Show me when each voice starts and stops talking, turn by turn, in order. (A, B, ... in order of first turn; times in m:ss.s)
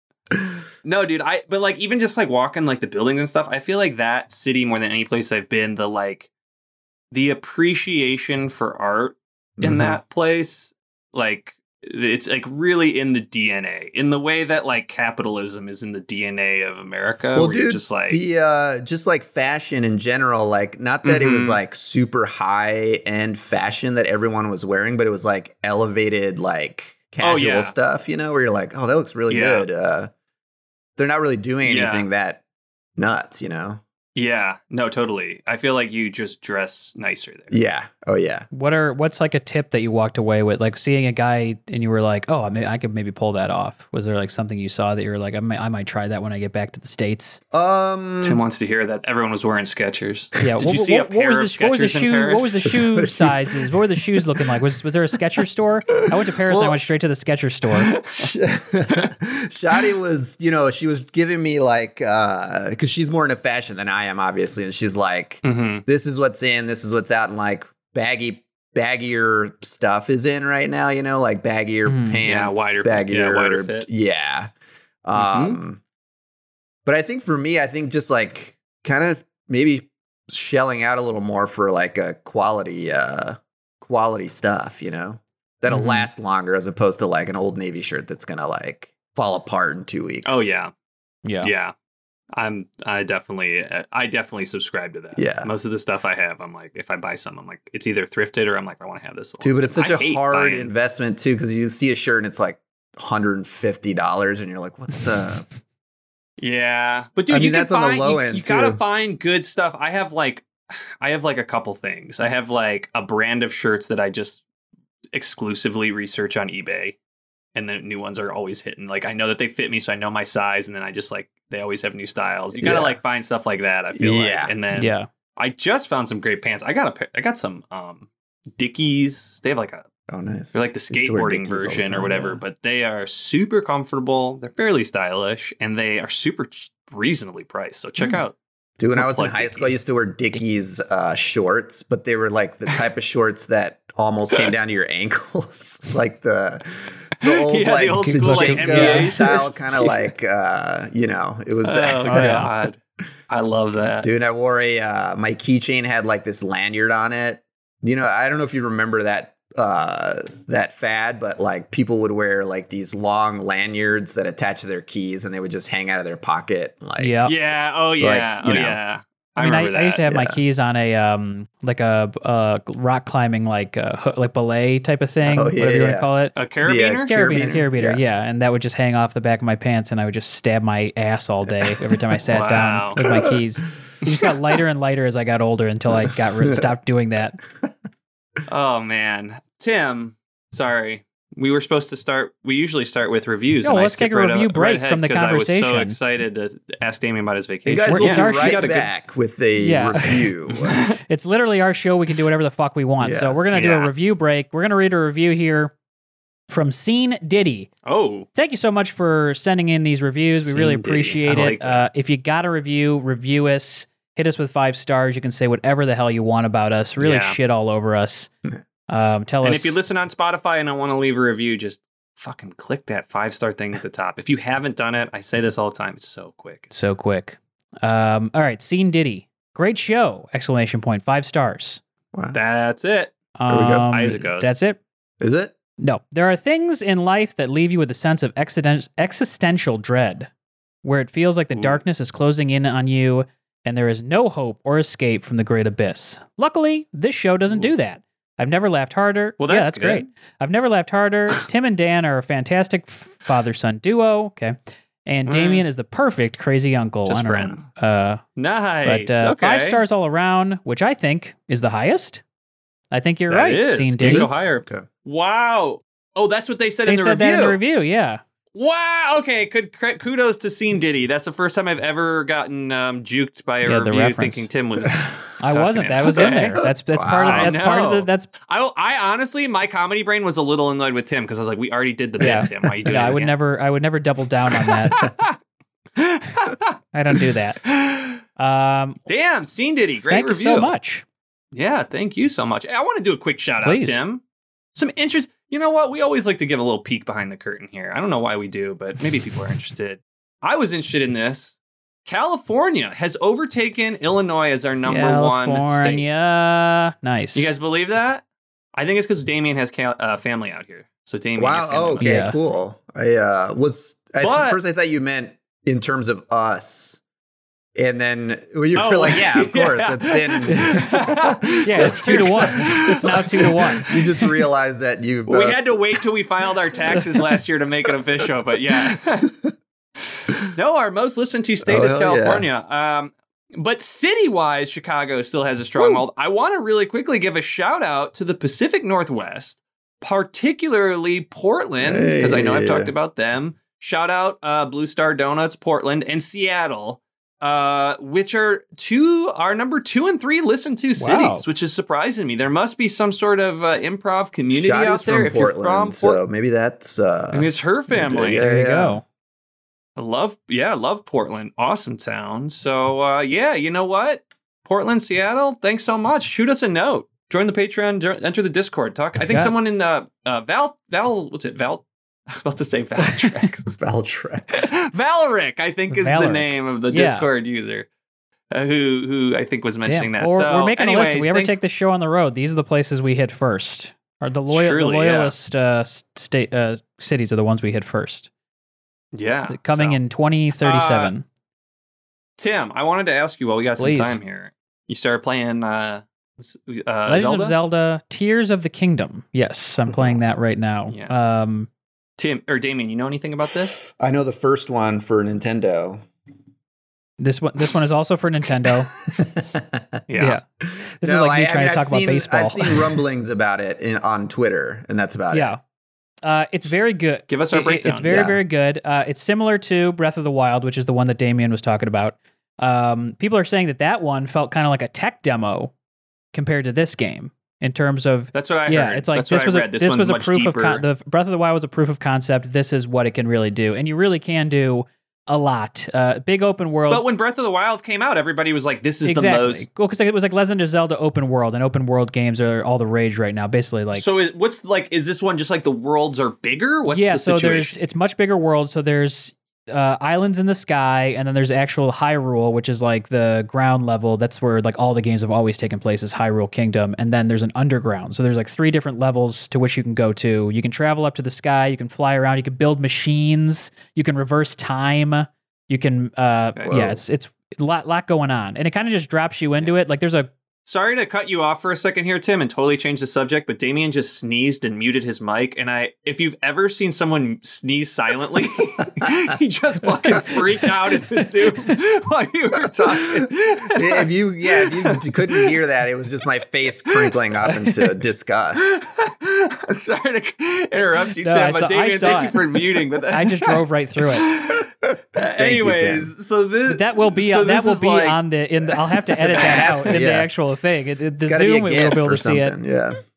0:00.3-0:00.6 A
0:00.8-0:06.3 B
0:07.1-0:18.2 B
0:09.6-0:10.0 A
0:17.3-0:30.1 A
0:21.0-0:21.6 B
0:27.2-0:27.7 B
0:29.3-0:29.6 B
0:31.0-0:32.4 A
0:31.6-0:32.1 B
0:33.0-0:33.8 A
0:34.1-0:37.6 B
0:37.5-0:38.5 A
0:38.5-0:47.4 C
0:47.5-0:48.4 A
0:48.2-0:52.7 B
0:50.4-0:57.9 C
0:52.6-0:54.6 A
0:56.4-0:56.8 A
0:57.8-0:58.3 B
0:58.2-1:14.5 A
1:05.4-1:05.8 B
1:11.8-1:12.2 C
1:12.2-1:13.9 B
1:15.0-1:15.8 A
1:15.2-1:15.6 B
1:16.8-1:30.5 A
1:25.7-1:26.1 C
1:30.2-1:30.7 B
1:31.2-1:31.5 C
1:31.4-1:31.7 B
1:32.3-1:40.7 B
1:35.2-1:35.5 A
1:39.4-1:45.4 A
1:46.4-1:50.5 B
1:47.3-1:48.8 A
1:51.0-1:54.4 B
1:55.1-1:57.0 B
1:57.5-2:09.8 B
2:02.6-2:03.0 A
2:03.9-2:04.5 A
2:04.7-2:05.1 C
2:10.1-2:12.4 A
2:10.5-2:18.4 B
2:18.8-2:32.5 A
2:18.9-2:19.8 B
2:27.2-2:30.0 B
2:28.0-2:29.4 C
2:31.6-2:32.8 B
2:32.1-2:32.5 C
2:33.3-2:34.1 B
2:34.0-2:47.2 A
2:47.0-2:47.3 C
2:47.2-2:50.0 B
2:48.0-2:48.8 A
2:49.4-2:56.3 C
2:50.1-2:50.4 A
2:55.2-2:56.1 A
2:56.3-2:57.1 B
2:56.6-2:58.0 A
2:57.1-3:07.4 C
3:01.5-3:04.0 A
3:02.3-3:03.0 B
3:06.0-3:06.6 A
3:08.5-3:18.9 B
3:13.6-3:16.0 C
3:17.6-3:20.8 A
3:17.9-3:18.6 C
3:19.6-3:20.3 C
3:20.6-3:20.9 B
3:21.0-3:25.7 C
3:23.0-3:23.4 A
3:23.5-3:23.9 B
3:26.5-3:27.7 C
3:27.8-3:28.3 B
3:28.3-3:38.3 C
3:30.4-3:31.9 B
3:37.0-3:37.4 B
3:38.9-3:39.8 C
3:39.4-3:46.7 B
3:46.7-3:51.8 C
3:52.3-3:53.1 B
3:53.4-3:54.8 C
3:53.5-3:53.9 A
3:53.8-3:54.5 B
3:55.2-3:55.5 A
3:55.8-4:00.3 C
4:00.8-4:18.2 C
4:01.5-4:01.8 B
4:09.4-4:10.1 B
4:15.3-4:15.6 B
4:17.0-4:17.6 B
4:18.4-4:19.8 B
4:18.8-4:22.2 C
4:22.9-4:24.3 C
4:23.3-4:27.6 B
4:24.0-4:24.9 A
4:26.8-4:28.2 C
4:28.5-4:36.6 B
4:33.6-4:34.5 C
4:35.4-4:38.3 C
4:36.9-4:37.5 A
4:37.2-4:43.3 B
4:42.2-4:45.0 C
4:44.6-4:45.4 B
4:46.0-4:46.8 B
4:46.9-4:47.6 C
4:47.6-4:48.2 B
4:48.4-4:49.0 C
4:49.0-4:50.7 B
4:49.9-4:51.0 C
4:51.5-4:54.2 B
4:53.6-4:54.0 C
4:54.7-5:06.0 B
5:04.8-5:07.5 C
5:07.3-5:08.2 B
5:08.7-5:12.5 B
5:11.4-5:17.0 A
5:12.0-5:12.4 C
5:14.2-5:14.6 B
5:17.8-5:26.1 A
5:18.7-5:24.4 B
5:20.5-5:20.8 C
5:21.6-5:23.8 C
5:25.3-5:29.3 B
5:26.7-5:27.0 A
5:28.7-5:29.5 A
5:30.5-5:56.2 B
5:31.6-5:32.5 A
5:35.8-5:36.0 C
5:41.8-5:42.9 A
5:51.0-5:51.4 C
5:54.5-5:59.0 A
5:57.3-5:58.5 B
5:58.4-5:59.0 C
6:00.0-6:13.8 B
6:09.3-6:09.5 C
6:13.0-6:13.4 C
6:13.7-6:14.7 A
6:14.5-6:17.9 B
6:15.9-6:17.3 C
6:18.5-6:21.6 B
6:19.8-6:28.3 C
6:24.5-6:25.3 B
6:29.1-6:30.0 B
6:29.5-6:31.2 C
6:30.6-6:31.1 B
6:32.4-6:37.5 B
6:33.8-6:34.2 C
6:37.1-6:41.7 C
6:39.9-6:40.2 A
6:40.9-6:41.1 B
6:42.2-6:43.8 B
6:43.8-6:46.0 A
6:47.2-6:48.9 C
6:49.1-6:50.0 A
6:50.1-6:50.4 B
6:50.6-6:55.5 A
6:51.0-6:52.9 C
6:55.3-6:55.6 C
6:56.2-7:05.7 C
6:57.3-6:58.2 B
6:58.0-6:58.4 A
7:06.3-7:17.0 C
7:08.3-7:10.8 B
7:16.9-7:19.7 B
7:19.0-7:24.0 C
7:23.9-7:27.8 B
7:26.9-7:50.3 C
7:46.7-7:47.0 A
7:50.6-8:05.6 B
8:01.2-8:01.7 C
8:02.8-8:08.8 A
8:06.8-8:07.2 B
8:08.6-8:18.2 B
8:11.2-8:12.4 C
8:13.1-8:14.3 C
8:15.2-8:16.1 A
8:16.7-8:22.6 C
8:19.2-8:20.3 A
8:19.3-8:19.9 B
8:21.2-8:22.9 A